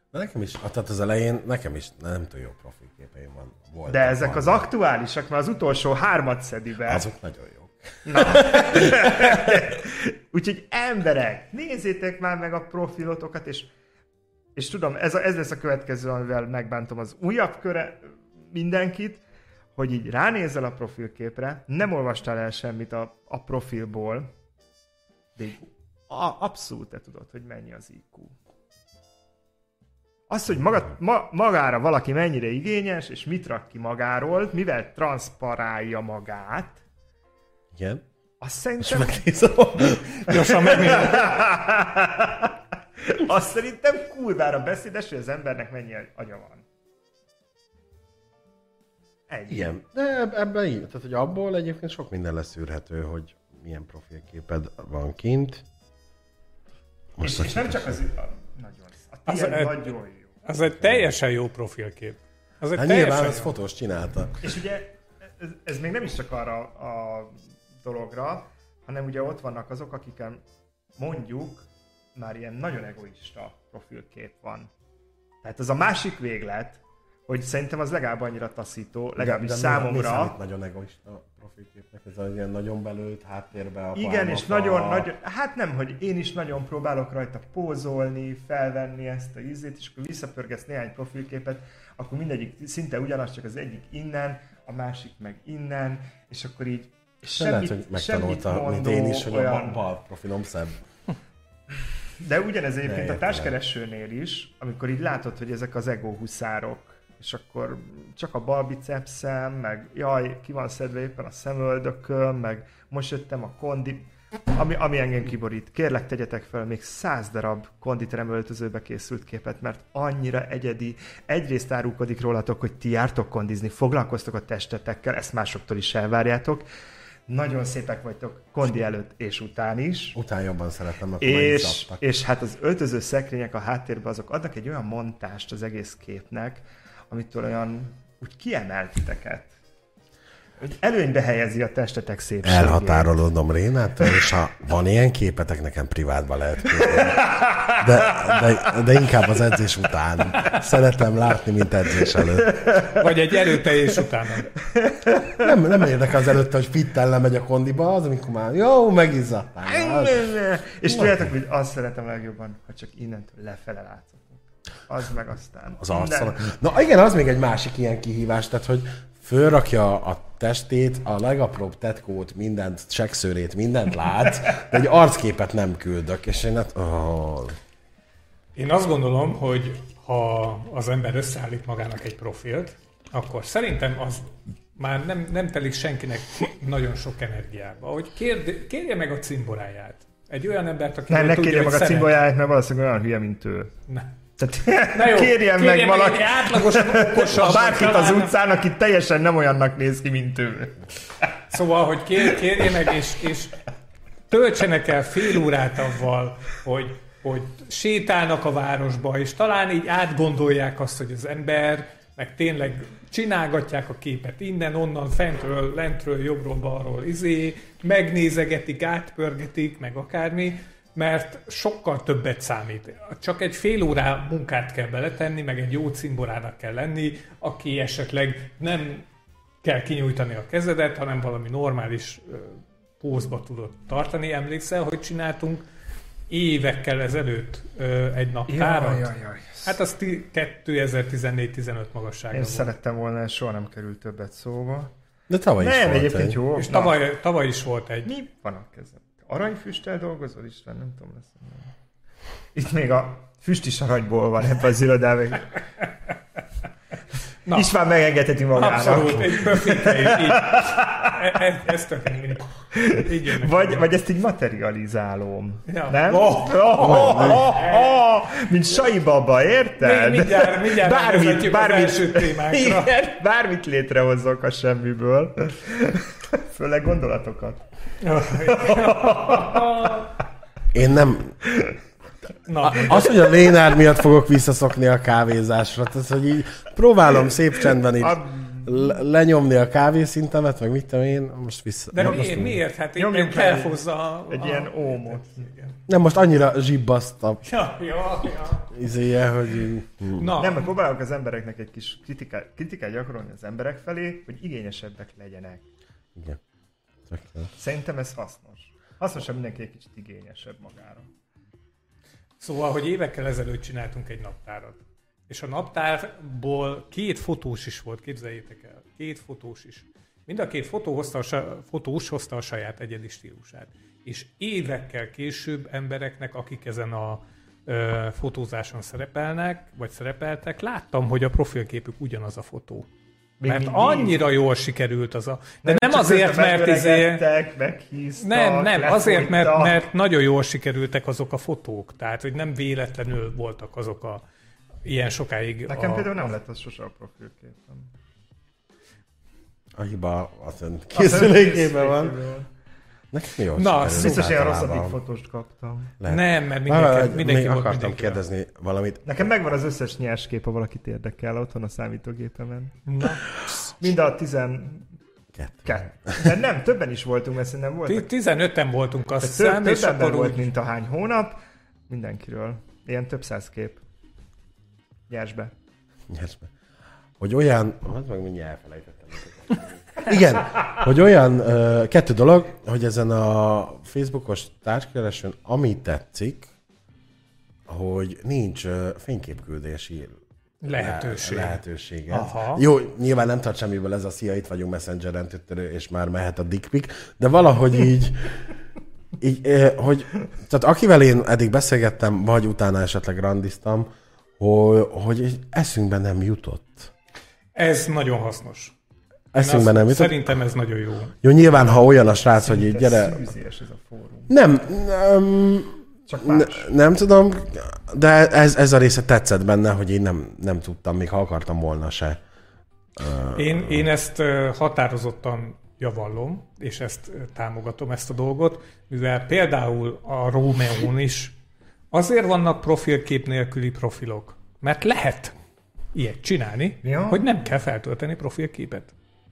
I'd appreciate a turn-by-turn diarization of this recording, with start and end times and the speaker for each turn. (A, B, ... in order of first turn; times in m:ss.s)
0:00.1-0:04.6 A
0:03.9-0:07.0 B
0:06.9-0:09.6 A
0:08.0-0:13.7 B
0:14.5-0:19.2 B
0:19.8-0:24.3 B
0:25.4-0:28.3 B
0:30.3-0:36.8 B
0:37.7-0:38.0 A
0:38.4-0:39.2 B
0:38.8-0:40.3 A
0:40.2-0:41.4 C
0:40.3-0:46.6 B
0:49.3-0:49.7 B
0:49.5-0:55.6 A
0:57.2-0:57.9 A
0:57.2-1:00.3 B
0:59.3-0:59.9 C
1:00.4-1:03.5 C
1:00.7-1:01.1 A
1:02.7-1:04.4 A
1:04.4-1:10.4 B
1:11.0-1:14.7 B
1:15.4-1:20.3 B
1:19.2-1:25.1 A
1:23.9-1:39.8 B
1:37.3-1:40.8 A
1:42.2-2:06.6 B
1:42.8-1:43.5 A
2:07.3-2:10.2 B
2:10.1-2:12.0 A
2:11.2-2:19.5 B
2:20.6-2:23.1 B
2:22.4-2:32.6 A
2:26.8-2:28.7 B
2:32.2-2:33.0 B
2:32.9-2:34.5 C
2:34.6-2:35.5 B
2:35.4-2:40.2 A
2:39.6-2:46.4 B
2:45.8-2:57.6 A
2:58.6-3:12.1 C
3:11.1-3:13.7 B
3:14.4-3:20.8 B
3:14.9-3:18.3 C
3:21.5-3:23.6 C
3:24.3-3:49.0 C
3:49.6-3:55.6 C
3:56.3-3:59.1 C
3:58.5-3:59.7 B
3:59.6-4:02.7 C
4:02.3-4:04.9 B
4:05.3-4:06.4 A
4:05.6-4:07.0 B
4:06.6-4:08.1 C
4:08.0-4:11.7 B
4:12.5-4:15.5 B
4:17.4-4:17.7 C
4:17.5-4:21.4 B
4:18.5-4:23.9 C
4:22.7-4:37.6 B
4:25.7-4:27.6 C
4:26.8-4:27.4 A
4:29.8-4:32.9 C
4:38.0-4:40.0 C
4:38.2-4:40.0 B
4:40.7-4:41.4 A
4:42.5-4:43.1 C
4:42.6-4:52.6 A
4:48.0-4:48.7 B
4:51.9-4:55.7 C
4:53.0-4:55.5 B
4:55.9-4:57.4 A
4:57.4-4:58.7 C
4:58.7-5:00.3 A
5:00.2-5:00.7 C
5:00.4-5:05.6 B
5:07.1-5:07.5 A
5:07.6-5:11.1 B
5:12.4-5:32.9 C
5:33.4-5:34.2 B
5:33.5-5:37.2 C
5:35.6-5:39.8 B
5:38.2-5:44.2 C
5:44.8-5:46.3 C
5:45.7-5:47.9 B
5:49.7-5:52.1 A
5:50.9-5:52.5 B
5:53.1-5:55.0 A
5:53.6-5:54.3 C
5:53.9-5:55.9 B
5:56.0-5:59.2 A
5:56.1-5:58.2 C
5:59.0-6:02.8 B
6:02.8-6:03.7 C
6:03.8-6:04.9 B
6:05.3-6:06.3 A
6:05.6-6:08.1 B
6:07.9-6:10.4 C
6:09.2-6:11.4 B
6:11.9-6:13.8 B
6:15.1-6:15.5 B
6:16.1-6:16.5 A
6:17.2-6:26.5 A
6:27.7-6:30.2 A
6:30.6-6:32.6 C
6:30.7-6:38.3 A
6:39.2-6:46.9 A
6:47.5-6:48.7 C
6:49.3-6:50.2 A
6:49.4-6:51.1 C
6:51.2-6:53.2 A
6:52.4-6:54.3 B
6:54.3-7:02.2 A
6:56.1-6:56.7 B
7:03.0-7:03.8 A
7:03.3-7:11.4 C
7:11.9-7:15.3 C
7:15.9-7:18.9 C
7:16.8-7:17.2 B